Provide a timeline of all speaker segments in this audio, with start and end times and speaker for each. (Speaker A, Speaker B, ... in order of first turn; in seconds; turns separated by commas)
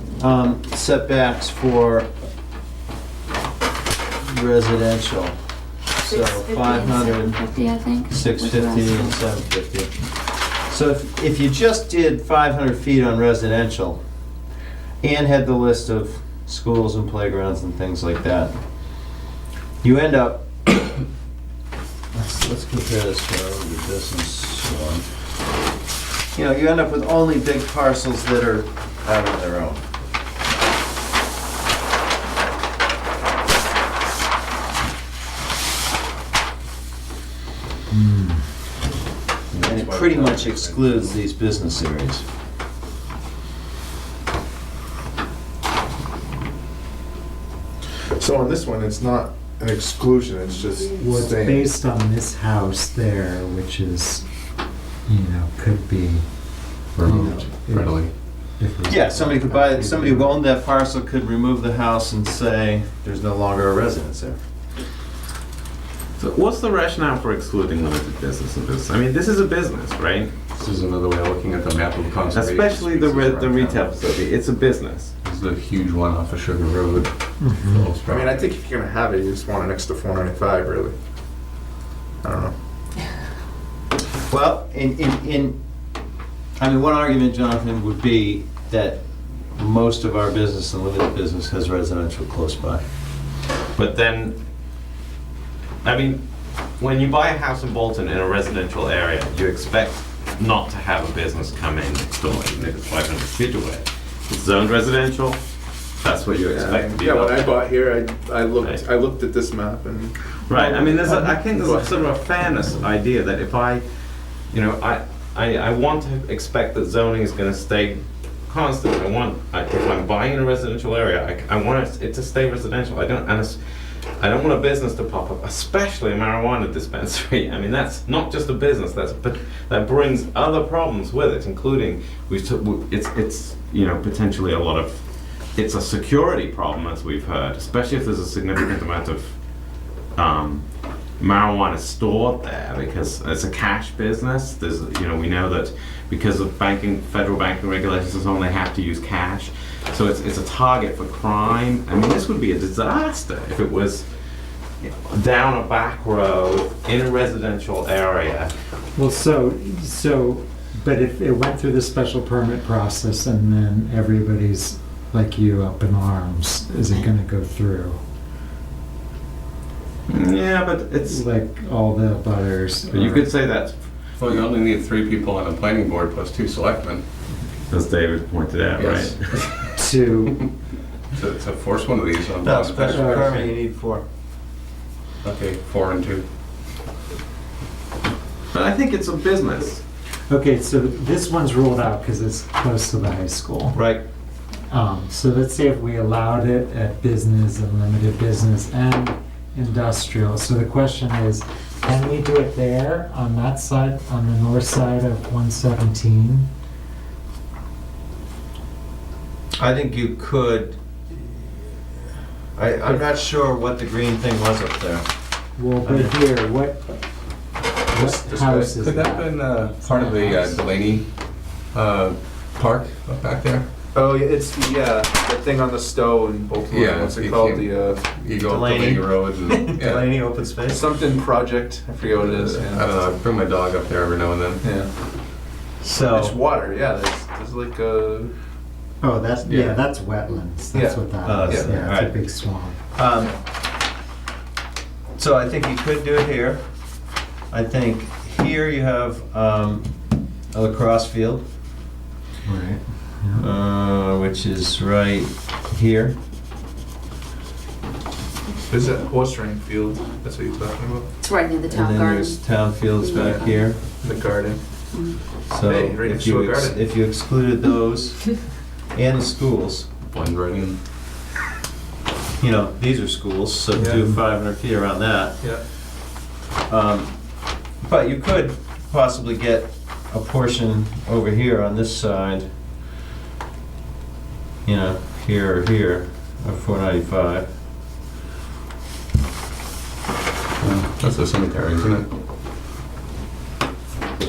Speaker A: 0.2-2.1, Speaker A: 4.2-5.3, Speaker A: 6.0-7.4, Speaker B: 6.0-9.1, Speaker A: 8.1-9.9, Speaker A: 10.7-14.0, Speaker A: 15.0-18.5, Speaker A: 19.8-20.8, Speaker A: 22.1-25.1, Speaker A: 26.3-29.8, Speaker C: 37.9-38.4, Speaker D: 39.5-41.2, Speaker A: 39.6-42.2, Speaker E: 48.1-51.7, Speaker C: 51.0-54.2, Speaker C: 55.0-56.3, Speaker D: 57.0-58.1, Speaker C: 57.0-57.9, Speaker C: 58.6-60.3, Speaker A: 58.9-64.4, Speaker F: 66.2-70.3, Speaker D: 70.5-73.8, Speaker F: 72.3-75.1, Speaker D: 75.2-78.5, Speaker C: 77.4-77.9, Speaker E: 78.1-80.9, Speaker E: 82.2-82.5, Speaker A: 84.3-85.6, Speaker A: 86.6-89.0, Speaker A: 89.5-92.8, Speaker F: 93.8-94.4, Speaker F: 95.8-96.2, Speaker F: 96.8-105.4, Speaker F: 106.0-107.7, Speaker E: 106.5-111.9, Speaker F: 108.6-108.9, Speaker F: 110.5-113.8, Speaker F: 114.5-123.6, Speaker F: 124.2-135.0, Speaker F: 135.5-139.3, Speaker F: 140.2-140.6, Speaker F: 141.2-154.1, Speaker F: 154.8-158.5, Speaker C: 158.9-168.0, Speaker F: 170.1-171.2, Speaker C: 171.0-173.3, Speaker F: 172.9-173.8, Speaker D: 174.2-177.0, Speaker F: 177.7-179.4, Speaker D: 178.8-179.6, Speaker C: 179.7-180.5, Speaker D: 181.1-183.3, Speaker A: 182.4-184.0, Speaker C: 182.9-183.5, Speaker D: 185.2-186.2, Speaker F: 188.5-189.8, Speaker C: 190.3-193.8, Speaker A: 193.7-194.0, Speaker C: 194.7-206.5, Speaker A: 209.6-211.3, Speaker A: 212.6-215.1, Speaker C: 215.6-217.0, Speaker A: 215.8-216.1, Speaker C: 217.9-220.6, Speaker D: 218.2-221.1, Speaker D: 221.7-223.7, Speaker E: 223.9-228.0, Speaker D: 226.7-230.1, Speaker A: 228.4-230.8, Speaker E: 230.7-232.9, Speaker D: 232.2-234.7, Speaker A: 235.8-236.4, Speaker E: 236.1-238.3, Speaker C: 239.0-242.8, Speaker D: 239.4-239.8, Speaker A: 241.2-242.3, Speaker A: 242.9-243.4, Speaker A: 245.2-246.6, Speaker A: 247.5-249.9, Speaker A: 250.5-251.4, Speaker C: 252.4-253.4, Speaker A: 253.3-256.2, Speaker E: 258.7-261.1, Speaker G: 261.2-263.6, Speaker A: 261.7-263.8, Speaker E: 264.0-264.6, Speaker G: 264.9-265.2, Speaker A: 265.5-268.3, Speaker E: 265.6-266.8, Speaker A: 268.9-269.9, Speaker D: 270.1-270.8, Speaker A: 272.4-275.4, Speaker A: 276.7-277.2, Speaker A: 277.8-282.5, Speaker A: 284.6-287.5, Speaker D: 290.6-292.1